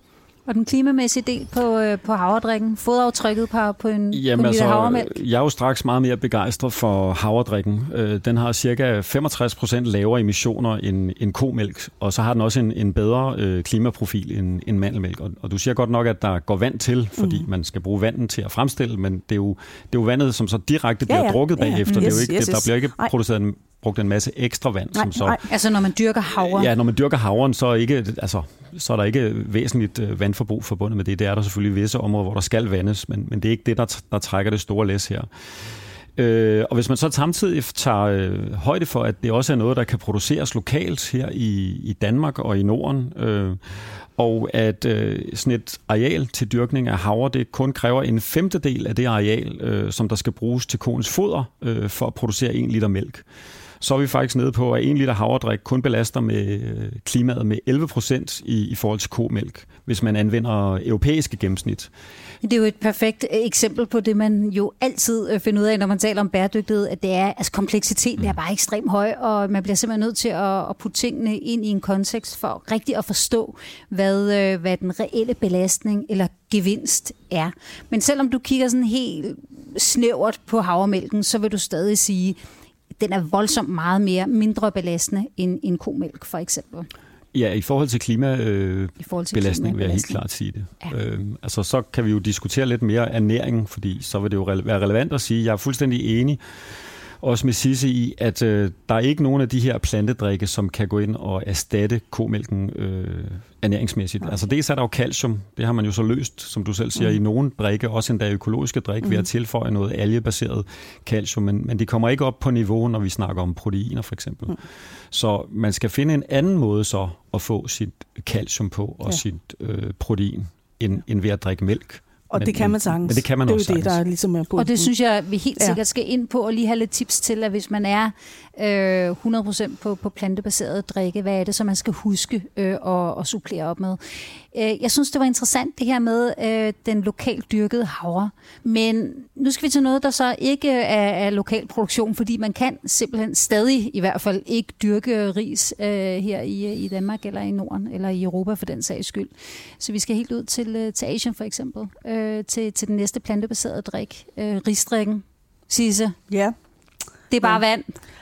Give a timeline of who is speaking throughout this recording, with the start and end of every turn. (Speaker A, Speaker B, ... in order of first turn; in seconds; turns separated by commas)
Speaker A: 0.5-5.2, Speaker B: 4.1-25.4, Speaker C: 17.2-17.5, Speaker C: 21.1-23.1, Speaker A: 21.9-22.2, Speaker C: 24.9-25.4, Speaker A: 25.5-26.7, Speaker B: 26.4-35.3, Speaker B: 36.1-43.6, Speaker B: 44.1-53.2, Speaker B: 53.8-61.9, Speaker A: 62.4-82.4, Speaker A: 83.0-86.9, Speaker B: 87.3-96.4, Speaker A: 89.0-90.2, Speaker B: 97.2-114.6, Speaker B: 115.1-124.0, Speaker C: 122.3-124.9, Speaker A: 124.6-156.2, Speaker C: 156.3-156.5, Speaker A: 157.3-157.9